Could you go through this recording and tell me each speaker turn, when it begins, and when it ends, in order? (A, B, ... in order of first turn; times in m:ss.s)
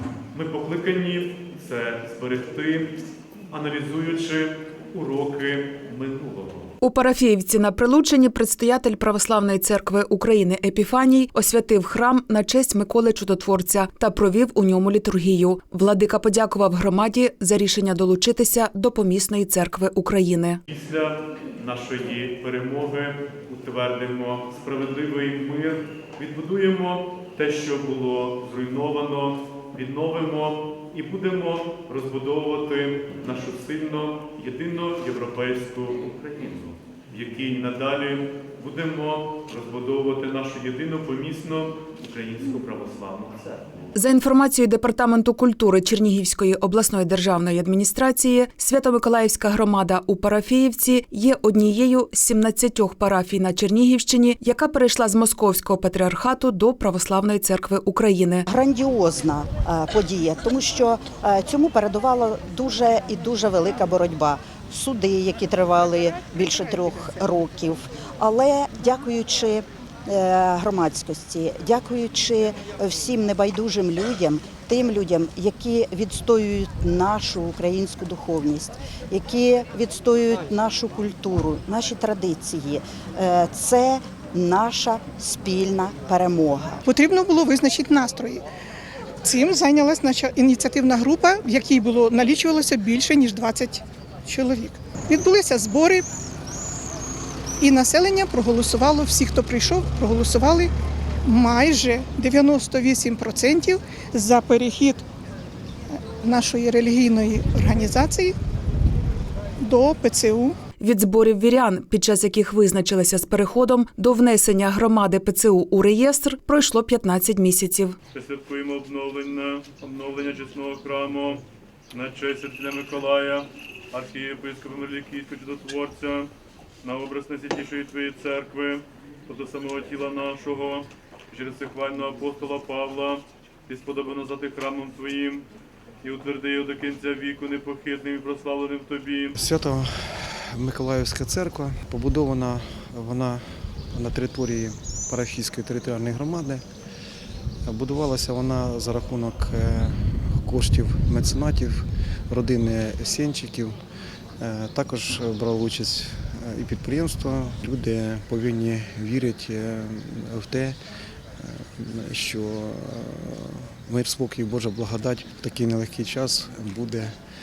0:00.3-0:02.9 A
0:03.5-0:06.7 A
0:06.8-0:20.6 B
0:20.7-0:44.0 A
0:44.0-0:58.4 B
0:58.5-1:26.8 C
1:26.9-1:28.4 D
1:29.2-1:36.0 D
1:37.6-1:40.7 D
1:41.2-1:45.0 D
1:46.2-1:48.4 D
1:49.6-1:50.6 D
1:50.8-1:58.0 B
1:58.1-2:06.3 A
2:06.8-2:15.5 A
2:16.0-2:19.4 A
2:19.4-2:26.6 E
2:27.7-2:33.8 E
2:34.4-2:40.8 E
2:41.4-2:47.1 E